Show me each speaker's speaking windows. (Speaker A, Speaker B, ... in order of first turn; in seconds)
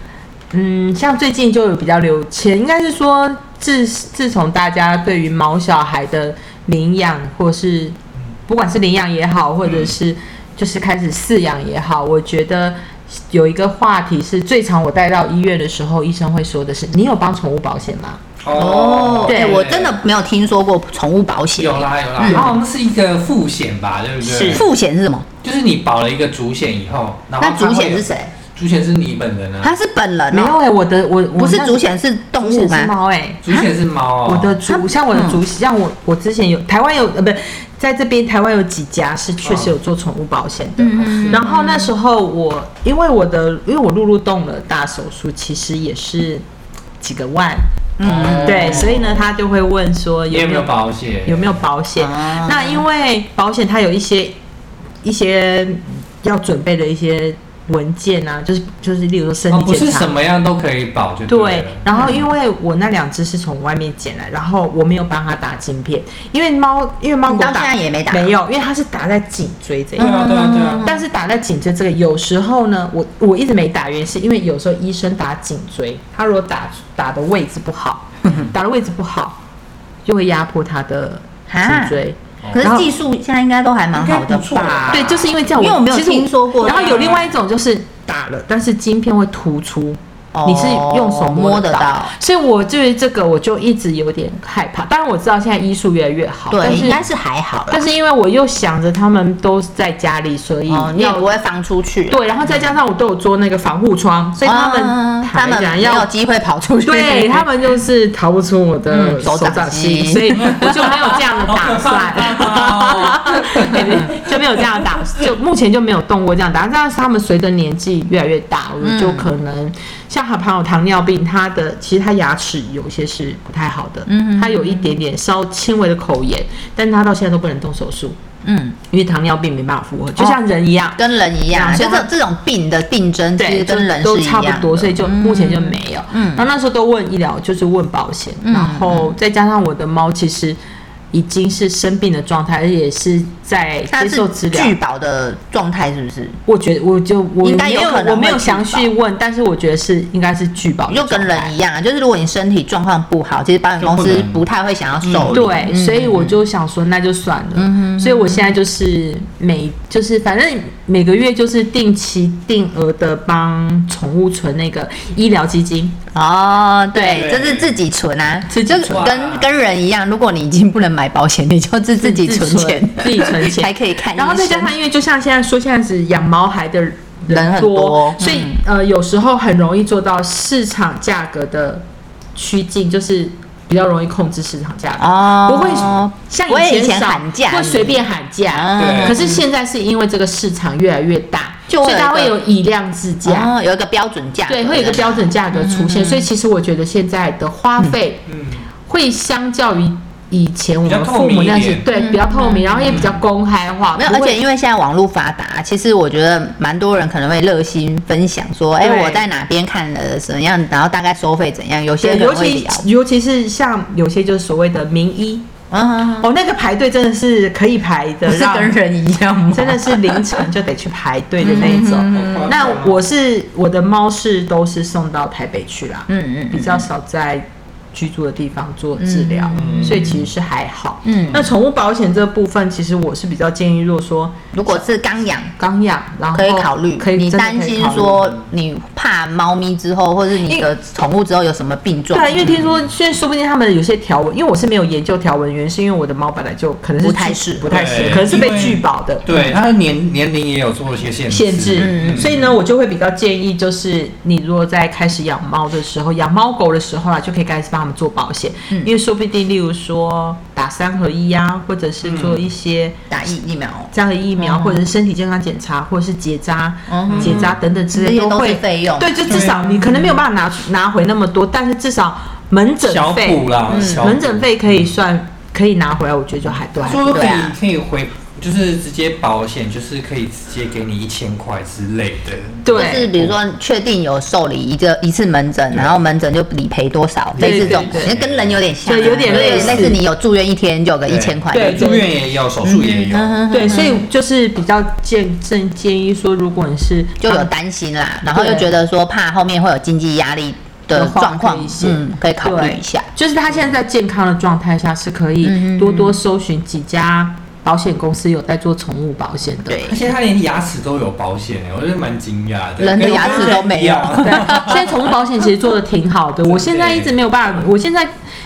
Speaker A: 0.5-8.0, 8.5-18.2, 19.3-19.6, 22.3-22.6, 24.2-24.6, 30.3-31.9, 32.4-33.4, 34.2-46.4, 47.0-47.7, 48.4-50.7, 51.2-54.4, 55.0-60.1, 61.3-79.4, 80.0-82.9, 84.9-97.0, 97.7-101.3, 102.1-106.1, 106.8-128.2, 128.9-132.1, 133.4-140.6, 141.1-144.8, 146.5-151.5, 155.2-166.0, 166.9-167.3, 168.5-169.1, 172.0-181.8, 182.3-193.5, 194.5-198.2, 198.9-204.4, 208.8-209.2, 212.0-215.5, 216.2-218.8, 219.5-234.8, 235.6-238.2, 242.1-249.3, 251.3-263.0, 263.9-277.1, 282.6-283.1, 287.4-288.1, 288.9-290.0, 291.5-292.1, 293.5-297.5, 298.2-298.8, 300.9-309.9, 313.2-313.6, 314.2-318.1
Speaker B: 9.7-9.9, 18.4-20.0, 21.6-24.7, 25.4-29.7, 33.4-34.6, 41.0-41.4, 48.0-49.2, 50.3-51.6, 59.5-61.8, 70.0-70.9, 82.4-82.9, 83.9-85.3, 86.7-87.3, 111.5-114.4, 153.8-154.4, 155.1-155.4, 167.1-167.8, 168.7-169.5, 188.8-189.2, 198.3-198.7, 200.8-201.9, 202.9-203.1, 222.1-223.0, 229.5-230.2, 247.7-252.5, 262.0-262.4, 267.1-267.5, 269.3-270.2, 272.8-274.9, 276.8-283.4, 285.7-286.0, 287.4-290.0, 291.1-293.7, 309.8-314.9, 316.5-317.1
Speaker C: 18.5-22.5, 24.4-25.3, 27.4-28.3, 29.6-30.6, 31.4-32.9, 34.7-35.4, 40.8-41.9, 48.0-48.9, 52.0-52.9, 61.9-62.2, 67.3-68.3, 70.0-71.0, 81.5-82.0, 82.5-87.2, 90.3-92.1, 96.5-97.8, 100.7-102.2, 104.4-107.5, 108.9-111.1, 118.8-119.3, 124.1-124.9, 128.4-128.8, 131.0-136.5, 138.4-139.1, 143.9-146.4, 147.4-148.9, 150.9-156.3, 157.6-158.6, 166.1-174.7, 177.3-178.6, 185.0-189.4, 191.7-192.3, 193.2-196.3, 201.9-203.1, 203.9-212.8, 215.7-216.3, 218.3-220.4, 221.4-222.6, 226.1-226.9, 229.0-230.2, 231.1-231.5, 234.5-235.5, 236.3-242.6, 247.0-248.4, 251.8-252.4, 263.1-264.8, 266.9-269.4, 273.7-274.1, 277.0-277.6, 282.7-292.1, 292.6-294.0, 297.2-303.1, 305.4-306.2, 309.7-310.0, 312.8-314.9